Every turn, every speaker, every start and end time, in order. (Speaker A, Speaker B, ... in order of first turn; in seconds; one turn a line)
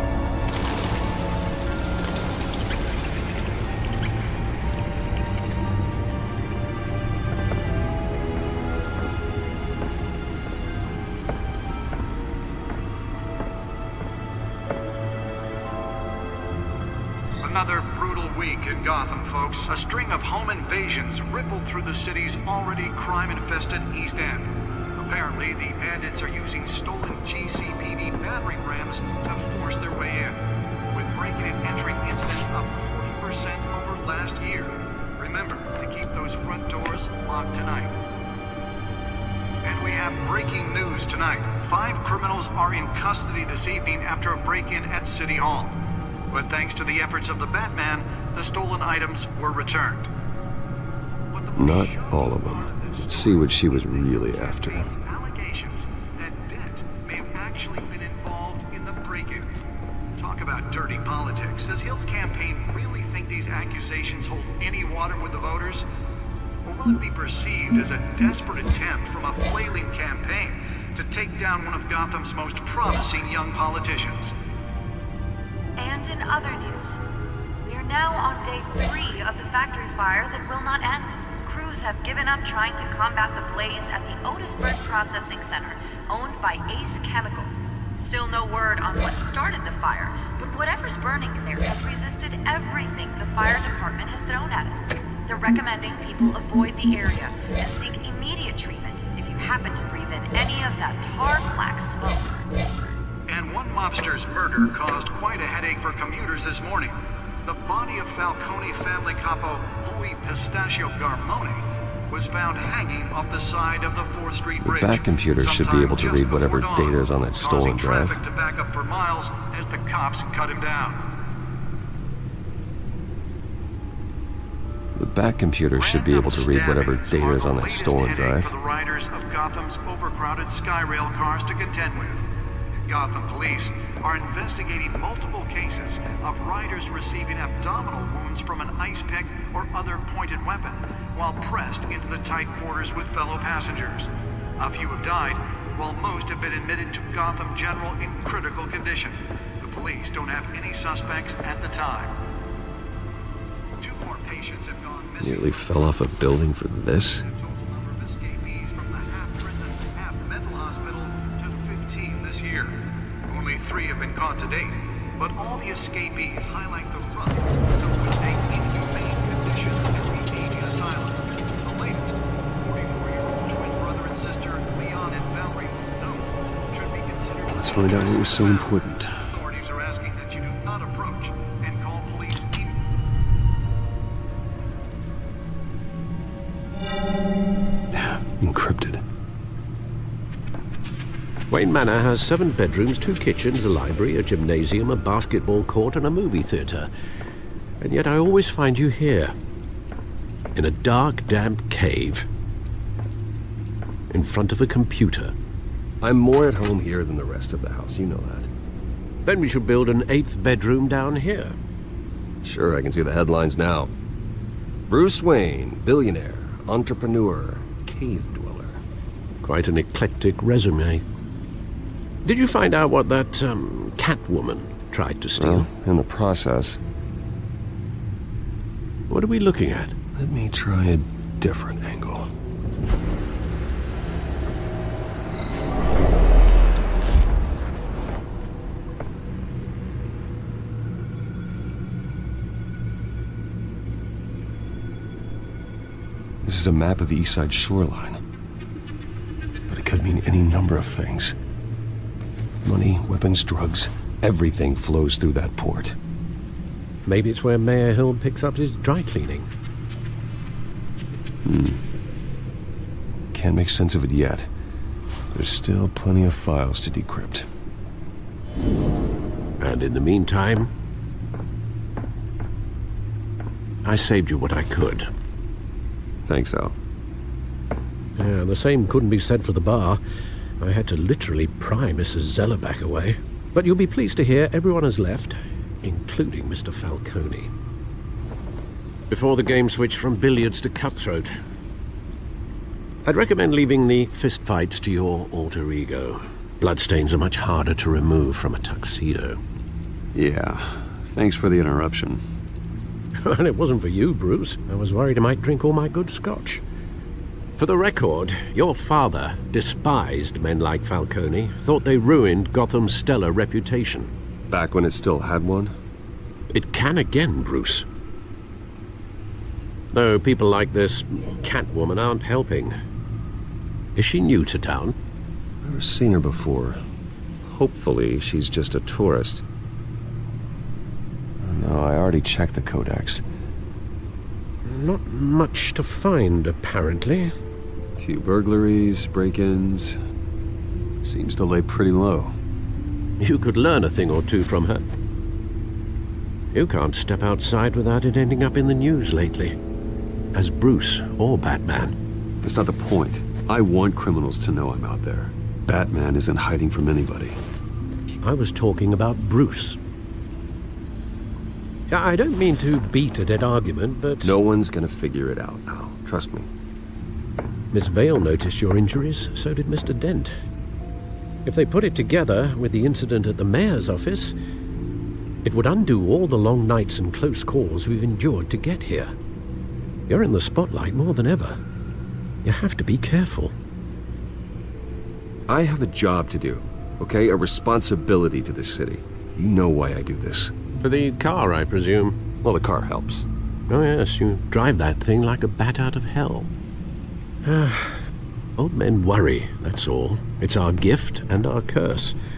Speaker A: 17.4-38.0
Speaker A: 39.6-45.8
Speaker A: 46.3-50.1
Speaker A: 51.3-59.5
Speaker B: 51.6-54.9
Speaker A: 60.2-65.9
Speaker A: 66.7-74.3
Speaker C: 75.8-77.0
Speaker C: 77.6-102.4
Speaker A: 103.3-121.1
Speaker B: 114.6-118.2
Speaker B: 125.0-128.5
Speaker A: 125.8-132.3
Speaker A: 132.9-152.2
Speaker A: 153.8-156.0
Speaker B: 155.2-157.2
Speaker A: 157.2-182.8
Speaker B: 177.5-179.2
Speaker B: 187.9-189.0
Speaker D: 191.5-196.9
Speaker D: 197.8-199.3
Speaker D: 200.6-202.3
Speaker D: 204.1-205.3
Speaker B: 206.0-208.5
Speaker D: 209.2-211.6
Speaker B: 212.4-213.9
Speaker B: 214.9-218.8
Speaker D: 219.4-221.0
Speaker D: 222.2-225.7
Speaker B: 225.4-226.8
Speaker D: 229.1-229.9
Speaker B: 230.2-232.3
Speaker B: 246.4-248.2
Speaker B: 249.7-251.4
Speaker B: 252.7-256.0
Speaker D: 257.1-259.5
Speaker B: 261.5-261.8
Speaker B: 263.3-264.5
Speaker B: 265.3-267.5
Speaker D: 269.6-270.7
Speaker D: 273.8-275.1
Speaker B: 276.3-276.8
Speaker D: 278.2-280.0
Speaker D: 280.6-287.5
Speaker D: 289.1-291.3
Speaker D: 293.0-299.4
Speaker B: 300.1-302.2
Speaker D: 303.2-306.6
Speaker D: 307.6-314.1
Speaker B: 314.5-315.8
Speaker D: 316.5-317.9
Speaker D: 319.9-322.8
Speaker D: 323.9-325.0
Speaker B: 325.6-326.8
Speaker B: 327.4-329.4
Speaker B: 331.4-333.2
Speaker D: 334.6-337.3
Speaker B: 338.0-340.0
Speaker B: 341.0-342.4
Speaker D: 343.2-344.9
Speaker D: 346.5-349.6
Speaker D: 350.3-352.0
Speaker B: 352.4-357.4
Speaker D: 358.2-359.8
Speaker D: 361.9-364.3
Speaker B: 364.2-366.5
Speaker D: 367.7-370.3
Speaker D: 371.4-374.4
Speaker D: 375.4-379.1
Speaker D: 380.1-381.6
Speaker D: 382.4-383.5
Speaker B: 385.5-390.5
Speaker D: 390.8-392.2
Speaker B: 392.4-393.3
Speaker D: 393.7-396.5
Speaker D: 397.4-398.0
Speaker D: 398.6-402.2